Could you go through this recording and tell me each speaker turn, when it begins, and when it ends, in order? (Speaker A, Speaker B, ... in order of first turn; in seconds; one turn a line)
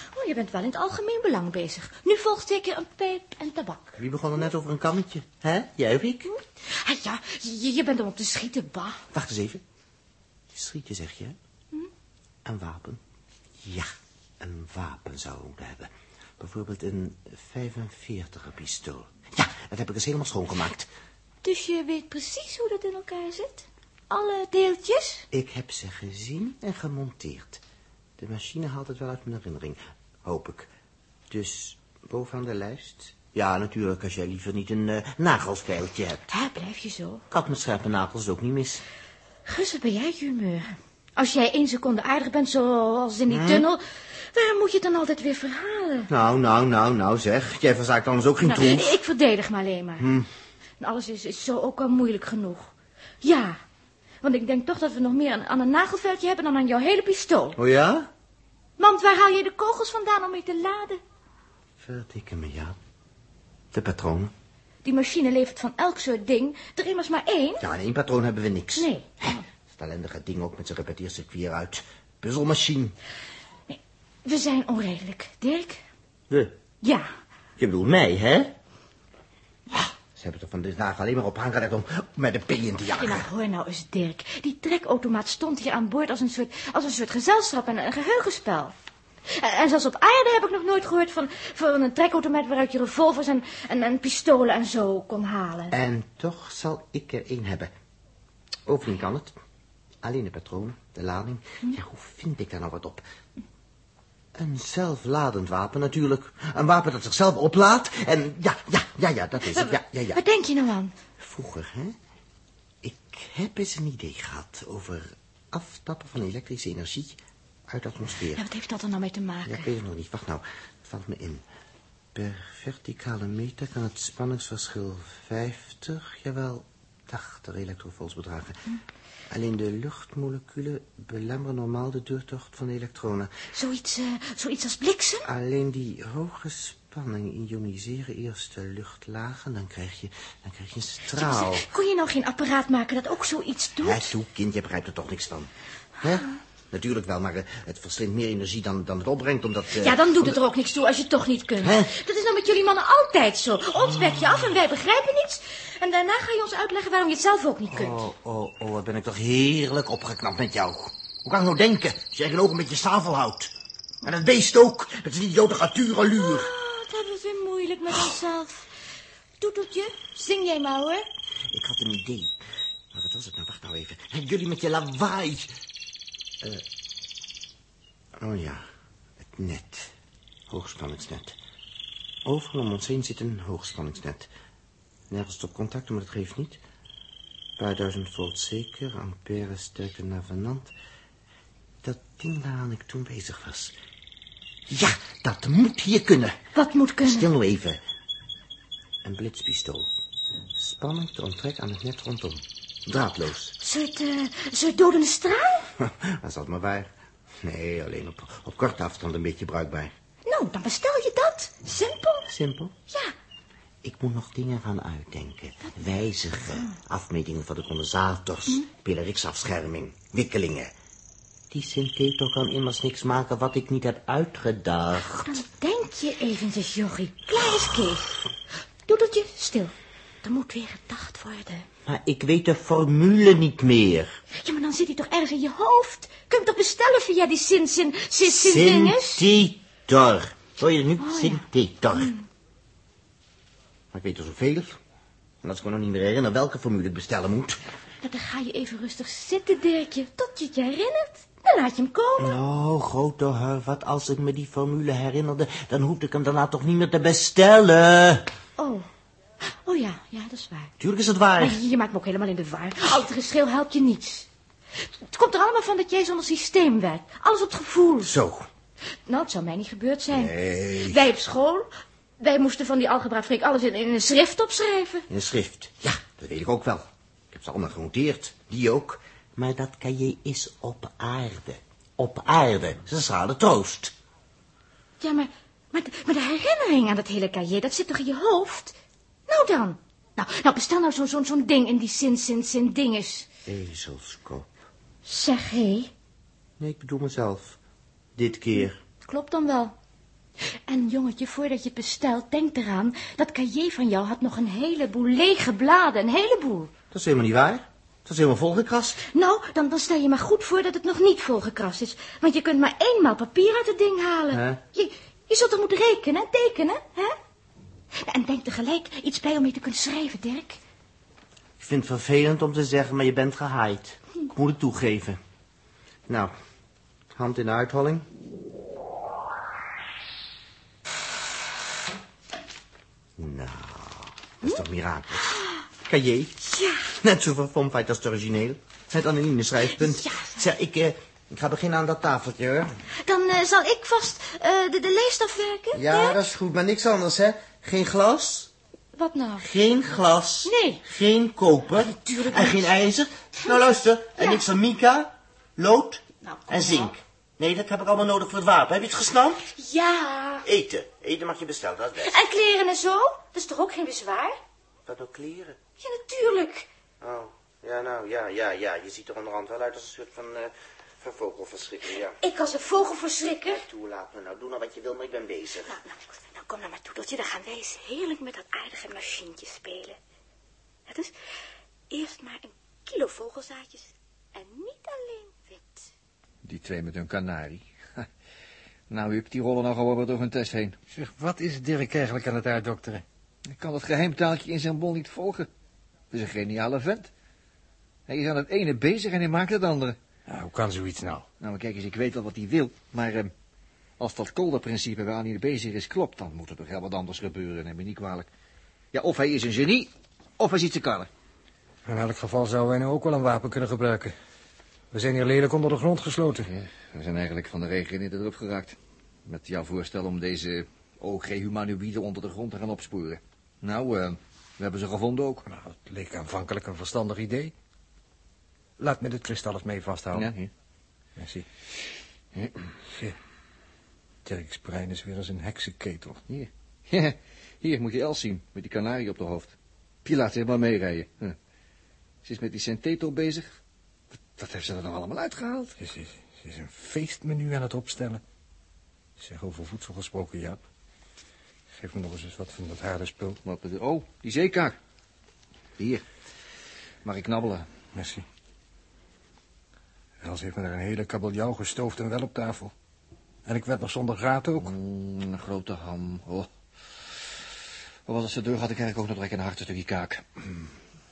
Speaker A: 0.1-4.0
Speaker B: 4.0-6.3
Speaker A: 6.3-9.0
Speaker B: 9.1-9.6
Speaker B: 10.5-11.4
Speaker B: 12.4-13.0
Speaker B: 13.6-13.9
Speaker B: 14.4-20.9
Speaker A: 21.4-25.3
Speaker B: 25.3-27.6
Speaker B: 28.2-30.7
Speaker B: 31.3-36.3
Speaker A: 36.3-37.2
Speaker B: 37.3-38.8
Speaker A: 39.5-46.1
Speaker B: 43.3-43.7
Speaker B: 46.1-49.0
Speaker A: 48.4-50.1
Speaker B: 50.0-50.3
Speaker A: 50.8-53.6
Speaker A: 54.2-57.6
Speaker B: 57.6-58.1
Speaker A: 58.8-61.0
Speaker B: 61.8-62.8
Speaker B: 63.7-64.3
Speaker A: 64.8-67.6
Speaker B: 67.6-73.0
Speaker A: 68.8-69.5
Speaker A: 73.7-75.8
Speaker B: 76.3-76.6
Speaker A: 76.8-77.1
Speaker B: 77.6-78.6
Speaker B: 79.7-83.3
Speaker A: 82.9-88.7
Speaker A: 89.3-95.8
Speaker B: 95.7-97.7
Speaker B: 98.7-99.3
Speaker B: 100.0-103.0
Speaker B: 104.3-110.2
Speaker A: 109.5-110.9
Speaker B: 111.2-112.0
Speaker B: 112.8-118.4
Speaker A: 118.3-119.7
Speaker B: 119.5-121.5
Speaker B: 122.1-128.6
Speaker B: 129.3-133.3
Speaker A: 133.5-135.3
Speaker B: 135.2-141.7
Speaker A: 141.1-144.1
Speaker B: 143.8-150.4
Speaker A: 149.7-158.0
Speaker B: 151.6-151.9
Speaker B: 153.9-154.4
Speaker B: 157.7-163.5
Speaker B: 164.0-166.5
Speaker A: 166.1-168.7
Speaker A: 169.4-171.1
Speaker B: 171.5-172.4
Speaker B: 172.9-175.5
Speaker B: 178.2-178.7
Speaker B: 179.2-179.9
Speaker B: 180.5-181.4
Speaker B: 182.2-184.3
Speaker B: 185.1-186.6
Speaker B: 187.6-190.7
Speaker B: 191.8-193.8
Speaker B: 194.7-196.4
Speaker A: 196.6-197.3
Speaker B: 197.0-197.8
Speaker B: 199.0-199.9
Speaker B: 200.6-203.6
Speaker A: 203.6-205.7
Speaker B: 205.8-209.9
Speaker A: 210.3-212.3
Speaker B: 212.3-212.8
Speaker B: 213.8-220.7
Speaker B: 221.5-225.4
Speaker A: 224.9-228.2
Speaker A: 228.9-231.7
Speaker B: 231.9-234.2
Speaker A: 234.3-239.3
Speaker B: 238.2-242.2
Speaker A: 241.0-242.3
Speaker B: 243.9-244.8
Speaker B: 245.4-247.6
Speaker A: 248.0-252.4
Speaker B: 252.2-258.3
Speaker A: 258.6-258.9
Speaker A: 259.4-260.7
Speaker B: 260.8-261.6
Speaker A: 261.4-264.3
Speaker A: 264.8-268.1
Speaker B: 268.0-268.5
Speaker A: 269.1-275.1
Speaker B: 270.1-271.0
Speaker B: 275.1-283.9
Speaker A: 285.0-288.8
Speaker A: 289.3-293.3
Speaker B: 293.5-294.5
Speaker A: 295.1-295.9
Speaker B: 296.6-297.6
Speaker B: 298.2-298.8
Speaker A: 299.0-299.8
Speaker A: 300.7-306.7
Speaker B: 306.9-309.0
Speaker A: 309.1-317.2
Speaker B: 314.3-314.6
Speaker A: 318.0-320.6
Speaker B: 321.6-325.2
Speaker B: 326.1-326.3
Speaker B: 327.1-328.1
Speaker B: 333.2-336.4
Speaker A: 335.2-335.6
Speaker A: 336.4-336.9
Speaker B: 336.9-342.8
Speaker A: 339.7-340.4
Speaker A: 343.0-346.2
Speaker B: 345.7-348.5
Speaker A: 348.9-349.5
Speaker B: 349.4-359.5
Speaker A: 350.4-350.8
Speaker A: 351.8-352.7
Speaker A: 354.2-354.4
Speaker A: 356.2-356.9
Speaker A: 359.6-360.5
Speaker B: 360.4-362.2
Speaker A: 362.0-364.4
Speaker B: 364.9-365.6
Speaker A: 365.8-366.7
Speaker B: 367.0-372.2
Speaker A: 372.2-373.6
Speaker B: 373.4-375.8
Speaker A: 375.6-380.0
Speaker A: 380.9-381.1
Speaker A: 381.9-385.9
Speaker C: 386.4-388.1
Speaker C: 388.9-390.8
Speaker D: 390.9-393.0
Speaker C: 393.5-395.5
Speaker C: 396.1-397.1
Speaker C: 398.1-400.0
Speaker D: 400.3-401.3
Speaker C: 401.4-403.3
Speaker C: 404.0-408.3
Speaker C: 408.9-411.1
Speaker D: 411.9-414.1
Speaker D: 414.9-416.5
Speaker C: 416.4-425.4
Speaker D: 425.5-427.5
Speaker D: 428.8-430.3
Speaker C: 430.1-430.5
Speaker D: 431.2-431.5
Speaker D: 432.9-433.2
Speaker D: 434.2-436.2
Speaker C: 436.3-441.4
Speaker C: 442.2-443.5
Speaker C: 444.4-445.8
Speaker D: 445.8-448.2
Speaker D: 449.2-450.6
Speaker D: 451.7-453.4
Speaker C: 453.4-454.8
Speaker C: 455.8-456.0
Speaker C: 457.0-457.7
Speaker D: 457.9-458.2
Speaker D: 460.2-462.7
Speaker D: 463.5-464.7
Speaker C: 464.6-466.5
Speaker C: 468.1-470.7